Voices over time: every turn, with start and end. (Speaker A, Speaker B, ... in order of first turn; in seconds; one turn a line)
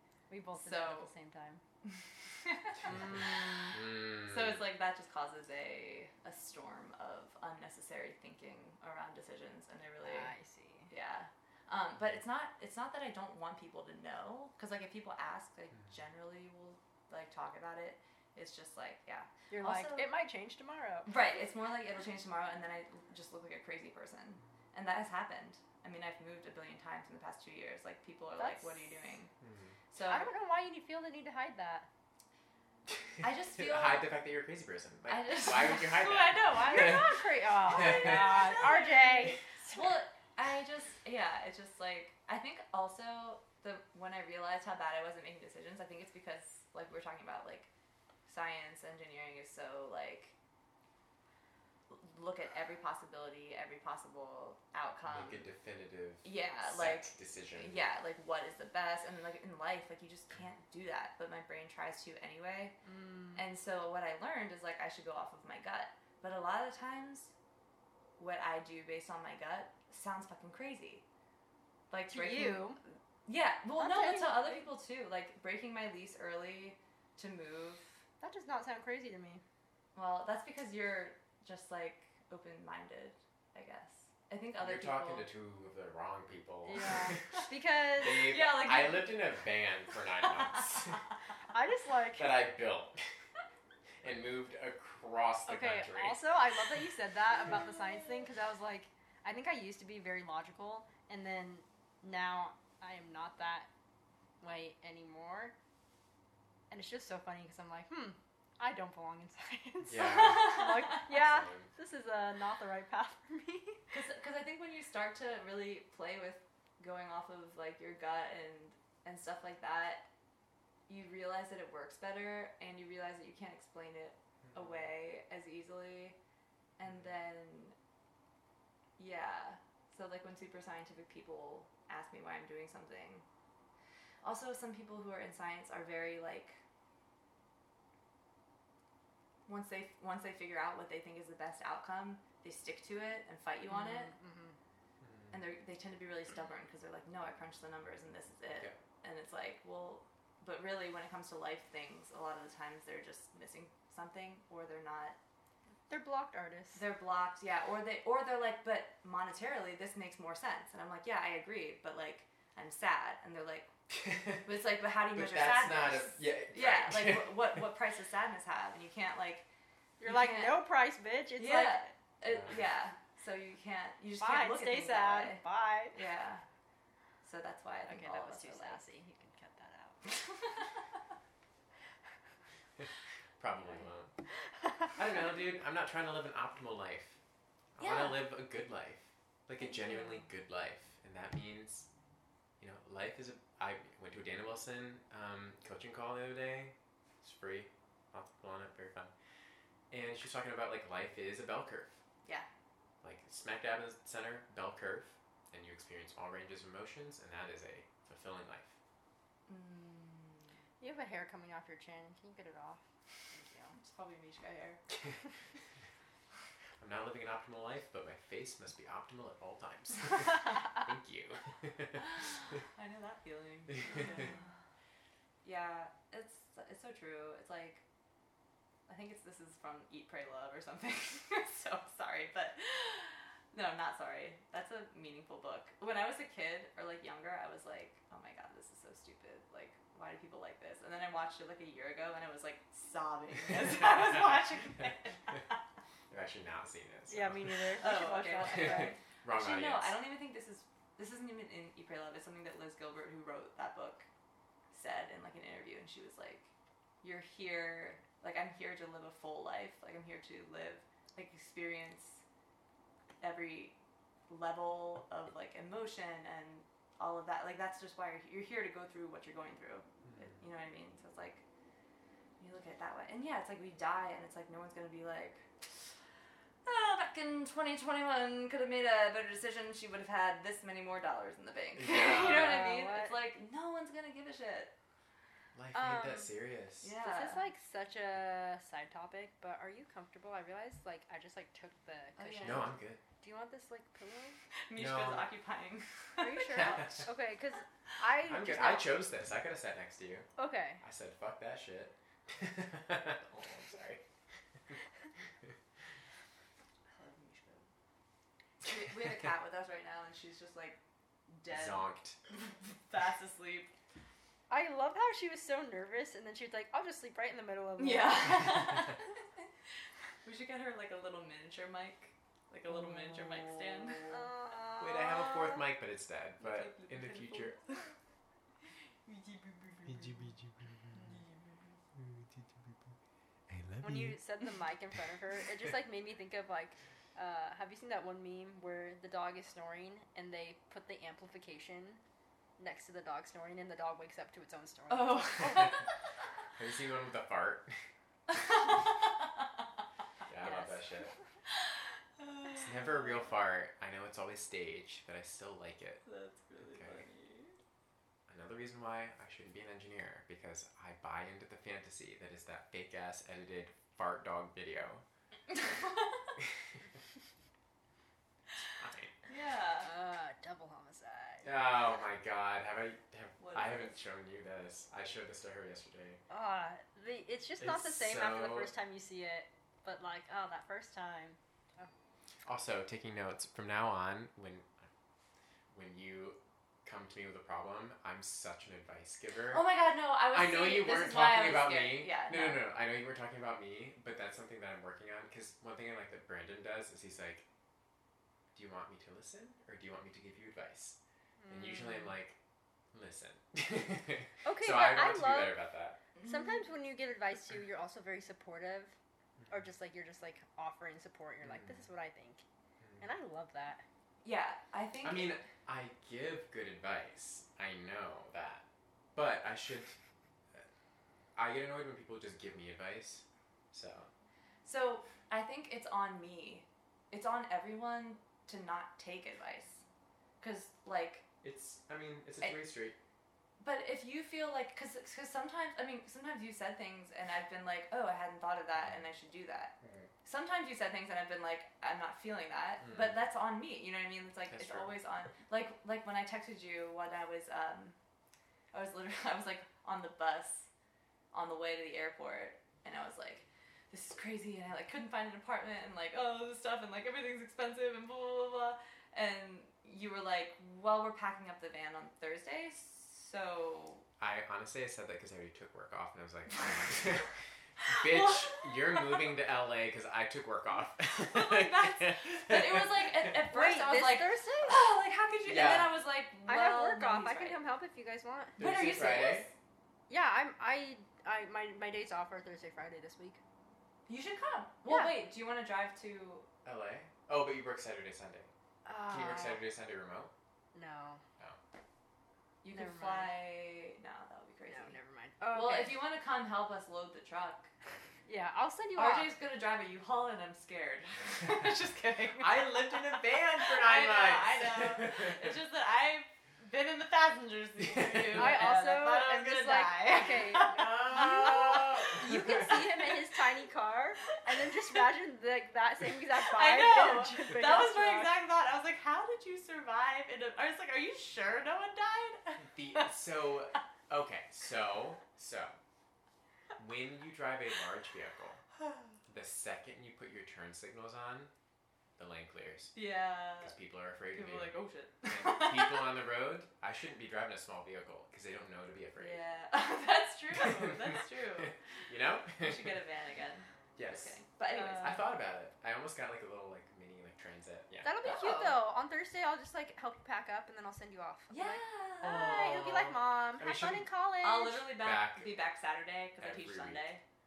Speaker A: 0.3-1.6
Speaker B: 0.5-1.1
Speaker B: 1.9-10.3
Speaker A: 2.9-3.8
Speaker C: 3.7-4.6
Speaker A: 10.0-10.9
Speaker B: 10.9-20.1
Speaker A: 19.5-21.4
Speaker B: 21.1-29.3
Speaker A: 28.4-29.2
Speaker C: 29.4-29.8
Speaker B: 29.9-30.3
Speaker A: 30.0-31.9
Speaker C: 33.0-38.5
Speaker B: 33.2-34.1
Speaker B: 35.1-47.7
Speaker A: 36.5-39.9
Speaker B: 48.3-50.4
Speaker B: 51.9-55.5
Speaker C: 55.1-57.9
Speaker B: 56.2-62.8
Speaker A: 62.8-63.4
Speaker B: 63.4-67.3
Speaker B: 68.2-71.0
Speaker B: 71.9-78.0
Speaker A: 72.1-72.8
Speaker A: 73.8-74.7
Speaker A: 78.2-79.4
Speaker B: 79.9-85.3
Speaker C: 84.6-87.4
Speaker A: 86.6-88.4
Speaker C: 87.9-91.0
Speaker B: 88.0-89.2
Speaker A: 91.5-92.5
Speaker C: 92.2-93.0
Speaker C: 94.0-96.2
Speaker A: 95.5-103.7
Speaker A: 104.4-105.5
Speaker A: 106.7-113.9
Speaker C: 109.8-111.7
Speaker B: 110.2-111.0
Speaker B: 113.9-120.1
Speaker B: 120.9-126.2
Speaker C: 124.5-124.9
Speaker B: 126.8-127.8
Speaker B: 129.0-133.2
Speaker B: 134.2-136.6
Speaker B: 139.5-144.1
Speaker A: 143.7-144.6
Speaker C: 145.0-145.4
Speaker B: 145.3-155.2
Speaker A: 155.9-156.8
Speaker B: 156.8-163.7
Speaker C: 163.9-164.5
Speaker B: 164.4-169.5
Speaker C: 165.1-167.7
Speaker A: 170.0-171.9
Speaker B: 170.0-170.6
Speaker B: 171.4-175.4
Speaker C: 172.3-172.6
Speaker A: 174.2-176.0
Speaker B: 175.9-176.4
Speaker B: 177.2-178.8
Speaker A: 177.9-180.1
Speaker B: 180.1-180.7
Speaker C: 183.4-184.1
Speaker C: 184.9-187.2
Speaker C: 187.8-191.9
Speaker B: 187.8-188.3
Speaker B: 189.6-190.2
Speaker C: 192.6-199.1
Speaker C: 199.9-202.0
Speaker C: 203.0-208.8
Speaker B: 209.5-210.6
Speaker A: 210.8-212.8
Speaker A: 213.3-213.7
Speaker B: 213.6-214.8
Speaker C: 214.9-215.2
Speaker C: 216.8-222.3
Speaker B: 222.6-224.5
Speaker C: 223.7-224.1
Speaker B: 225.4-227.8
Speaker B: 228.9-245.6
Speaker C: 246.1-247.8
Speaker A: 247.1-249.0
Speaker B: 247.8-254.1
Speaker C: 248.3-250.0
Speaker B: 254.7-256.5
Speaker B: 257.0-262.2
Speaker B: 263.2-263.8
Speaker B: 264.3-271.4
Speaker C: 270.0-270.4
Speaker B: 272.4-275.8
Speaker B: 276.6-284.8
Speaker C: 281.8-282.7
Speaker A: 282.1-283.2
Speaker C: 285.5-286.9
Speaker A: 285.7-286.3
Speaker B: 286.8-287.4
Speaker A: 287.0-294.4
Speaker B: 292.2-292.8
Speaker C: 292.4-293.0
Speaker B: 294.6-297.1
Speaker C: 294.8-295.3
Speaker A: 296.2-298.9
Speaker C: 296.5-297.1
Speaker C: 298.3-300.3
Speaker A: 300.4-300.8
Speaker C: 300.8-304.0
Speaker B: 306.9-307.7
Speaker B: 308.6-313.7
Speaker C: 311.5-312.2
Speaker A: 314.5-318.9
Speaker B: 317.8-319.2
Speaker B: 320.2-324.3
Speaker A: 324.0-325.6
Speaker C: 324.8-327.6
Speaker B: 326.4-327.9
Speaker B: 329.1-330.1
Speaker C: 329.9-331.0
Speaker B: 330.9-331.8
Speaker C: 332.0-332.3
Speaker C: 333.5-334.2
Speaker A: 333.8-342.0
Speaker A: 342.6-345.8
Speaker B: 344.9-345.9
Speaker C: 346.6-347.8
Speaker B: 348.3-348.7
Speaker C: 350.3-351.1
Speaker B: 350.4-350.8
Speaker B: 352.2-353.2
Speaker C: 352.5-356.0
Speaker B: 356.0-357.6
Speaker C: 356.6-357.0
Speaker C: 358.3-365.0
Speaker C: 368.6-369.1
Speaker B: 369.3-369.9
Speaker A: 369.8-371.5
Speaker C: 371.4-376.2
Speaker B: 373.4-373.9
Speaker A: 376.3-381.9
Speaker C: 377.6-378.7
Speaker C: 382.4-384.9
Speaker C: 385.7-389.6
Speaker B: 389.5-392.7
Speaker C: 390.3-397.4
Speaker C: 398.5-402.4
Speaker A: 401.4-402.1
Speaker C: 402.9-406.0
Speaker A: 404.4-405.6
Speaker B: 406.1-406.7
Speaker A: 406.2-409.0
Speaker A: 409.5-412.4
Speaker C: 411.4-411.9
Speaker A: 413.0-413.9
Speaker B: 414.2-415.4
Speaker C: 415.0-419.9
Speaker C: 421.4-424.1
Speaker B: 424.6-429.9
Speaker B: 430.4-431.2
Speaker C: 431.4-432.9
Speaker B: 433.6-447.9
Speaker C: 438.8-439.1
Speaker C: 439.8-440.1
Speaker C: 442.8-443.1
Speaker C: 444.5-444.9
Speaker B: 448.7-450.7
Speaker B: 451.3-464.1
Speaker C: 464.2-473.4
Speaker B: 467.9-469.3
Speaker B: 471.1-477.6
Speaker A: 473.5-474.9
Speaker C: 475.4-475.9
Speaker A: 476.4-478.7
Speaker B: 478.6-479.5
Speaker C: 478.6-479.5
Speaker A: 480.1-483.4
Speaker B: 484.1-486.5
Speaker A: 484.9-485.1
Speaker C: 486.6-488.5
Speaker A: 488.9-489.6
Speaker C: 489.1-490.3
Speaker A: 490.7-491.2
Speaker B: 492.6-495.0
Speaker A: 492.7-493.4
Speaker A: 494.7-496.0
Speaker B: 495.5-497.7
Speaker A: 498.3-499.3
Speaker B: 498.9-512.1
Speaker C: 502.4-505.6
Speaker C: 507.8-508.7
Speaker A: 508.3-518.4
Speaker C: 510.6-512.9
Speaker B: 514.4-515.0
Speaker B: 516.2-523.1
Speaker C: 522.6-525.8
Speaker C: 526.8-528.6
Speaker C: 529.3-531.5
Speaker C: 532.2-533.0
Speaker B: 532.9-533.8
Speaker C: 533.6-539.4
Speaker B: 534.3-536.1
Speaker B: 539.2-541.7
Speaker C: 540.5-543.0
Speaker B: 542.6-545.2
Speaker C: 544.0-548.4
Speaker A: 544.8-545.0
Speaker A: 548.0-555.0
Speaker B: 548.2-548.8
Speaker B: 551.5-552.6
Speaker C: 552.2-554.1
Speaker B: 554.4-557.2
Speaker C: 555.0-555.5
Speaker C: 556.4-557.1